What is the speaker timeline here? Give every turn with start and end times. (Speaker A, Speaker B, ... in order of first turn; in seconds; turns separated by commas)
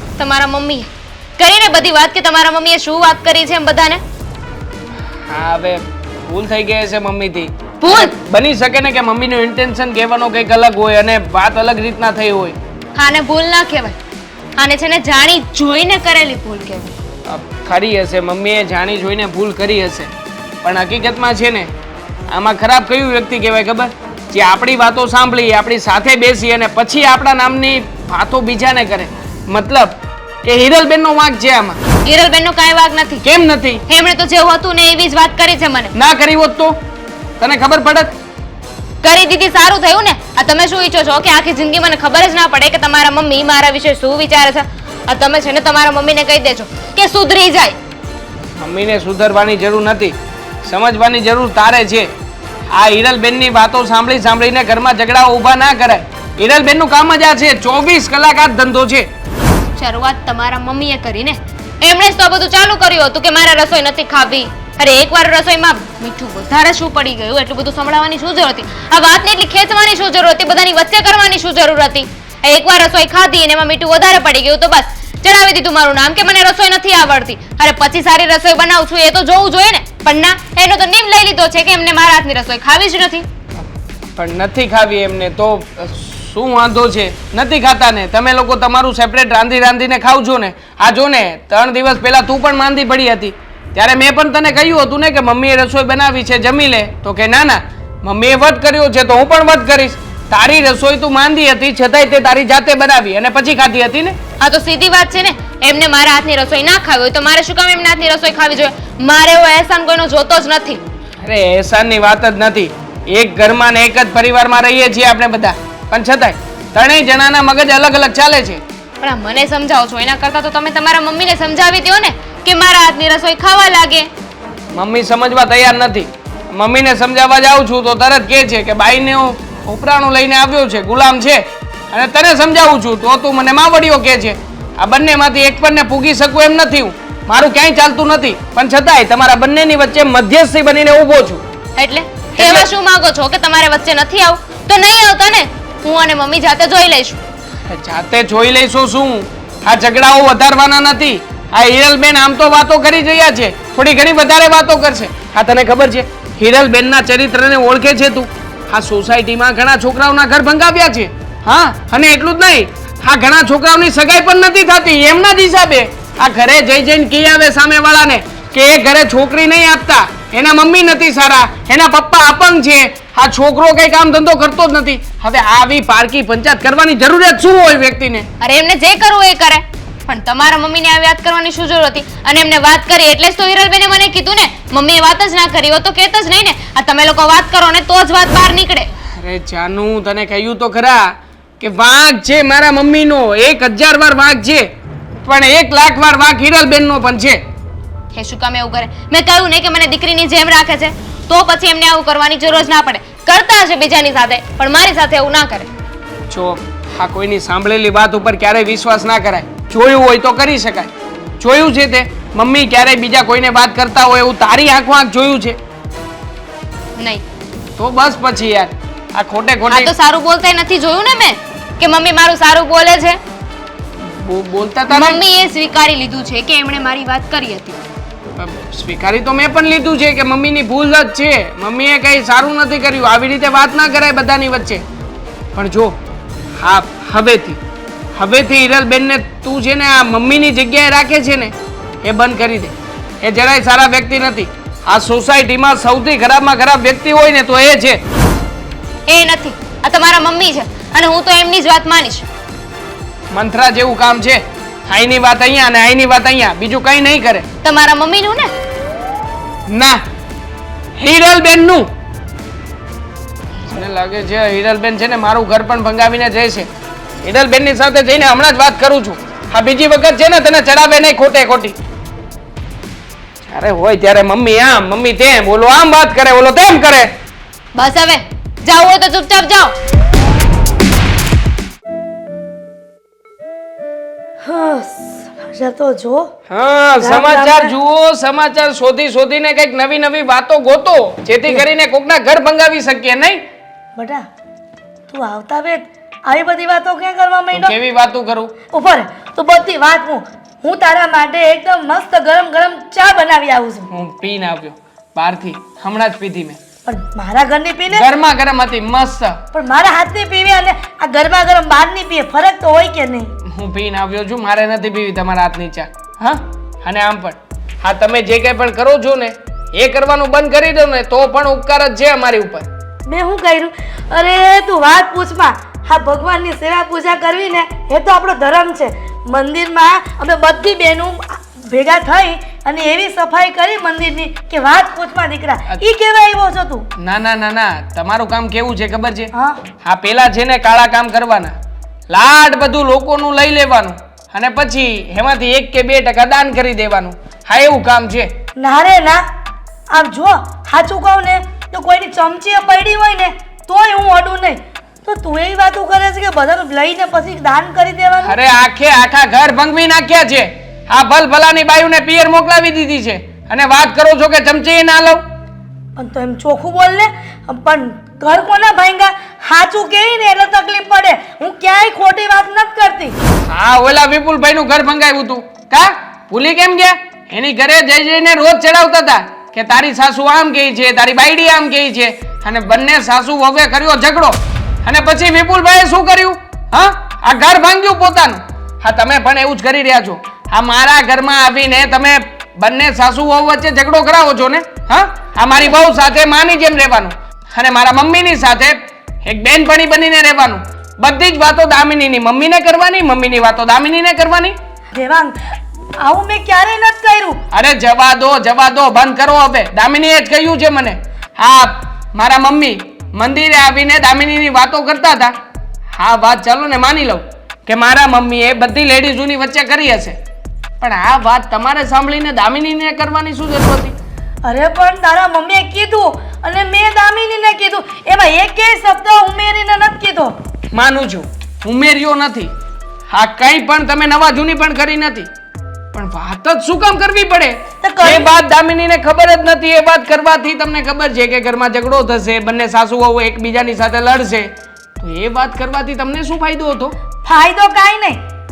Speaker A: 0.2-4.0, Speaker B: 5.3-12.6, Speaker A: 7.8-8.1, Speaker A: 12.9-14.0, Speaker A: 14.6-16.9, Speaker B: 17.3-20.1, Speaker B: 20.6-21.7, Speaker B: 22.3-31.8, Speaker A: 32.0-33.2, Speaker B: 33.2-33.8, Speaker A: 33.9-35.9, Speaker B: 35.9-36.8, Speaker B: 37.4-38.1, Speaker A: 39.0-47.8, Speaker B: 48.6-52.1, Speaker B: 52.7-59.1, Speaker A: 59.7-83.3, Speaker B: 84.2-104.1, Speaker A: 104.4-110.8, Speaker B: 111.2-118.6, Speaker A: 119.0-124.1, Speaker B: 124.7-141.4, Speaker A: 141.8-147.2, Speaker B: 142.3-142.7, Speaker B: 147.7-178.3, Speaker A: 178.4-188.9, Speaker B: 189.2-194.7, Speaker B: 195.2-197.4, Speaker A: 198.1-205.7, Speaker B: 206.3-215.6, Speaker A: 217.0-217.2, Speaker B: 217.8-219.9, Speaker A: 219.7-223.2, Speaker B: 224.0-225.2, Speaker A: 224.9-227.8, Speaker B: 228.4-234.8, Speaker B: 235.5-236.0, Speaker B: 236.6-237.6, Speaker B: 238.2-248.0, Speaker A: 249.1-252.2, Speaker B: 253.3-257.4, Speaker A: 257.6-258.5, Speaker B: 259.7-260.0, Speaker B: 261.0-261.9, Speaker B: 263.6-266.7, Speaker B: 267.2-271.8, Speaker B: 273.4-277.1, Speaker A: 277.7-279.7, Speaker C: 284.4-286.3, Speaker B: 286.5-293.4, Speaker C: 287.0-287.7, Speaker C: 293.9-294.2, Speaker C: 295.1-297.8, Speaker B: 297.5-298.5, Speaker C: 298.7-303.9, Speaker B: 303.9-306.6, Speaker C: 306.8-308.1, Speaker B: 307.9-309.4, Speaker C: 309.5-313.3, Speaker B: 313.5-322.7, Speaker C: 323.1-336.9, Speaker B: 337.0-339.3, Speaker C: 339.3-339.6, Speaker B: 339.8-341.5, Speaker B: 342.1-348.3, Speaker C: 348.6-349.2, Speaker C: 349.9-358.4, Speaker B: 358.2-365.2, Speaker C: 365.9-373.1, Speaker B: 373.5-404.5, Speaker C: 404.9-405.3, Speaker C: 406.0-407.4, Speaker B: 407.5-415.3, Speaker B: 415.9-420.1, Speaker B: 420.8-423.9, Speaker C: 424.4-430.3, Speaker B: 430.7-432.5, Speaker B: 433.1-435.3, Speaker B: 435.9-446.9, Speaker C: 437.8-438.4, Speaker C: 447.2-448.2